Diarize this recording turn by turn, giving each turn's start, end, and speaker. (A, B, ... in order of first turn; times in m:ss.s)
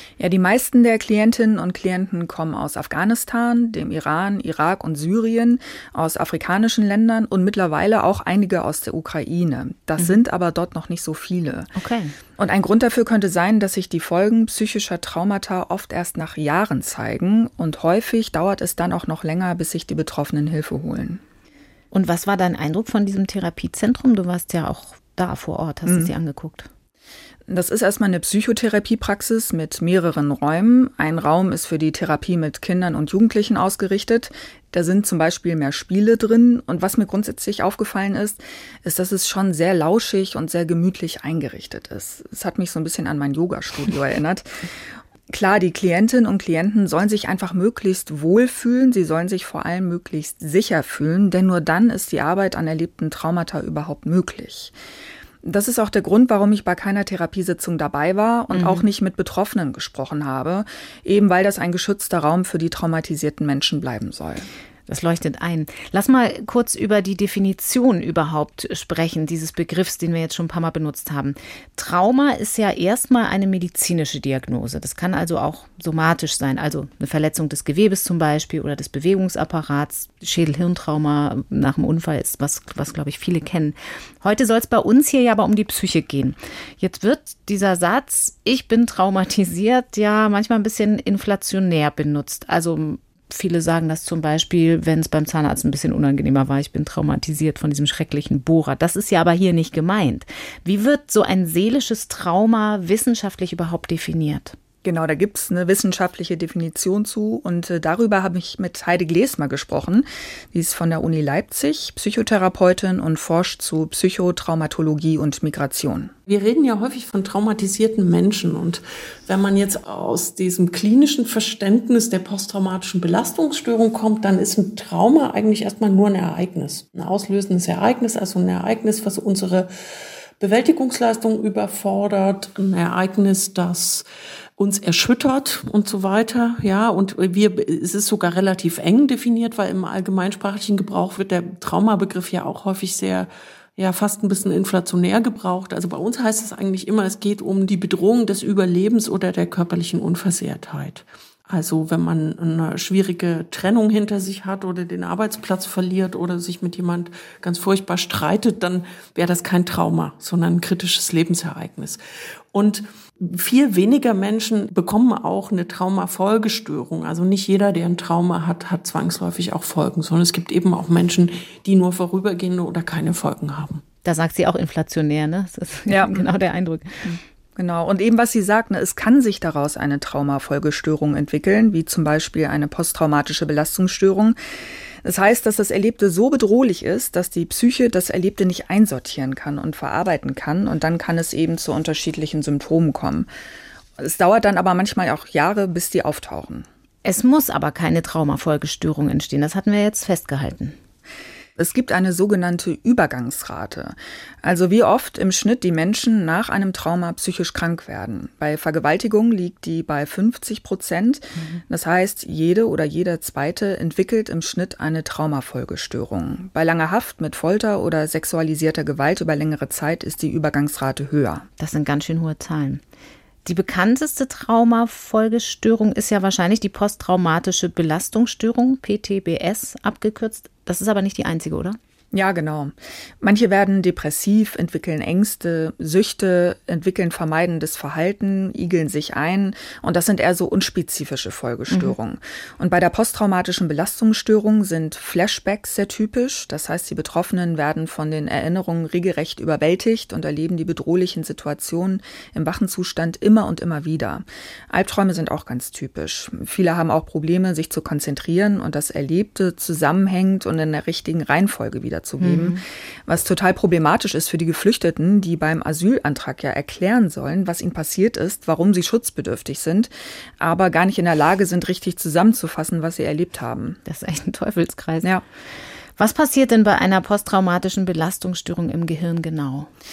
0:00.2-0:11.7 A
0:11.8-0:12.1 B
0:12.4-0:21.2 A
0:21.9-0:26.7 B
0:25.9-0:26.1 A
0:27.5-0:44.6 A
0:45.3-0:54.7 A
0:55.4-1:04.5 A
0:58.5-0:58.8 B
1:04.9-1:44.6 B
1:44.8-1:56.1 A
1:56.3-2:09.7 C
2:10.4-2:14.0 C
2:14.6-2:42.0 C
2:42.5-2:53.8 C
2:54.0-2:57.0 B
2:55.9-2:56.3 A
2:57.0-3:04.4 A
3:05.0-3:13.3 A
3:14.0-3:16.7 A
3:17.0-3:20.8 B
3:21.6-3:41.5 A
3:31.4-3:31.6 B
3:41.6-3:42.8 B
3:43.4-3:51.8 B
3:52.1-4:33.8 A
4:22.2-4:22.6 B
4:33.9-4:35.1 B
4:36.0-4:39.7 B